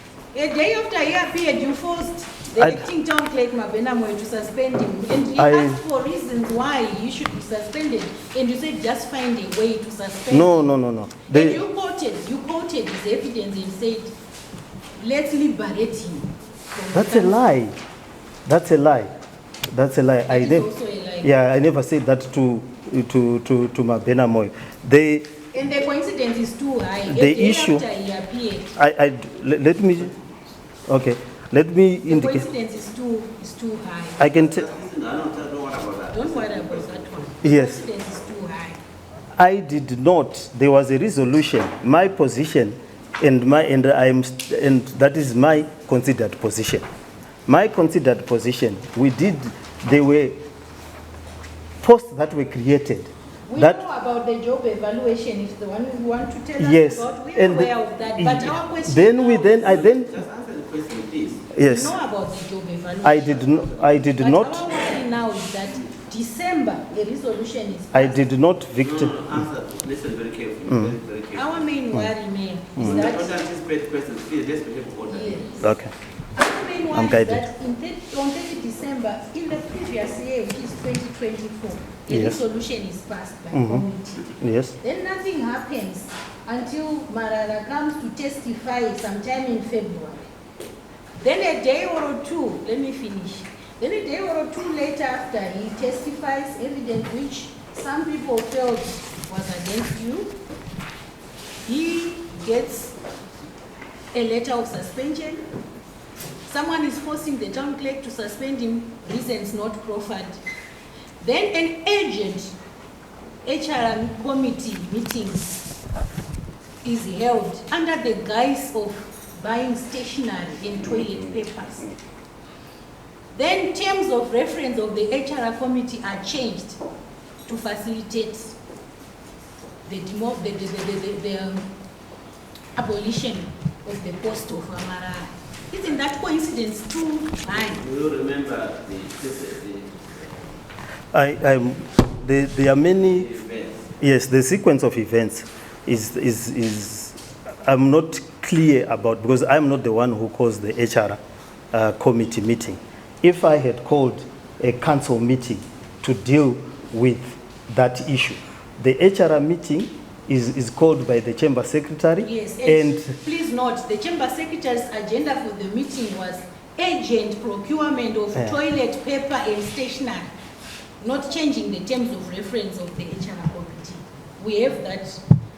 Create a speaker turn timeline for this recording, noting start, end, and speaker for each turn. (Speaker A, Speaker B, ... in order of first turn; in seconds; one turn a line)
Speaker A: 0.3-10.7
Speaker B: 2.6-2.8
Speaker B: 5.4-5.8
Speaker B: 10.3-11.6
Speaker A: 11.3-14.1
Speaker A: 15.0-17.4
Speaker B: 16.9-17.8
Speaker B: 18.5-19.1
Speaker B: 19.7-20.7
Speaker A: 20.3-21.3
Speaker B: 21.2-25.3
Speaker A: 25.5-28.7
Speaker B: 27.1-27.9
Speaker B: 28.8-30.1
Speaker B: 30.9-32.5
Speaker A: 32.1-34.3
Speaker B: 34.2-34.7
Speaker C: 34.2-37.3
Speaker A: 36.1-38.8
Speaker B: 37.4-37.8
Speaker B: 39.4-46.9
Speaker B: 47.5-50.4
Speaker B: 51.8-53.8
Speaker A: 53.5-59.8
Speaker B: 56.6-60.1
Speaker C: 59.5-61.5
Speaker B: 61.5-62.0
Speaker A: 61.6-63.5
Speaker B: 63.0-64.7
Speaker A: 64.2-68.3
Speaker B: 67.9-69.5
Speaker C: 68.8-71.6
Speaker A: 71.3-73.3
Speaker B: 72.8-73.0
Speaker C: 72.8-75.6
Speaker A: 75.1-75.7
Speaker B: 75.6-75.9
Speaker A: 76.3-90.3
Speaker B: 76.9-77.5
Speaker B: 82.1-82.4
Speaker B: 83.5-84.8
Speaker A: 91.2-100.4
Speaker A: 101.7-103.0
Speaker A: 104.1-105.4
Speaker A: 106.5-110.4
Speaker A: 111.2-112.5
Speaker A: 113.5-115.6
Speaker A: 116.8-121.9
Speaker A: 123.3-126.8
Speaker A: 127.5-128.6
Speaker A: 129.9-131.7
Speaker A: 132.8-137.8
Speaker C: 137.5-140.5
Speaker B: 141.1-143.3
Speaker C: 142.9-143.9
Speaker B: 144.0-151.2
Speaker B: 151.7-163.1
Speaker A: 162.2-170.3
Speaker A: 171.0-175.2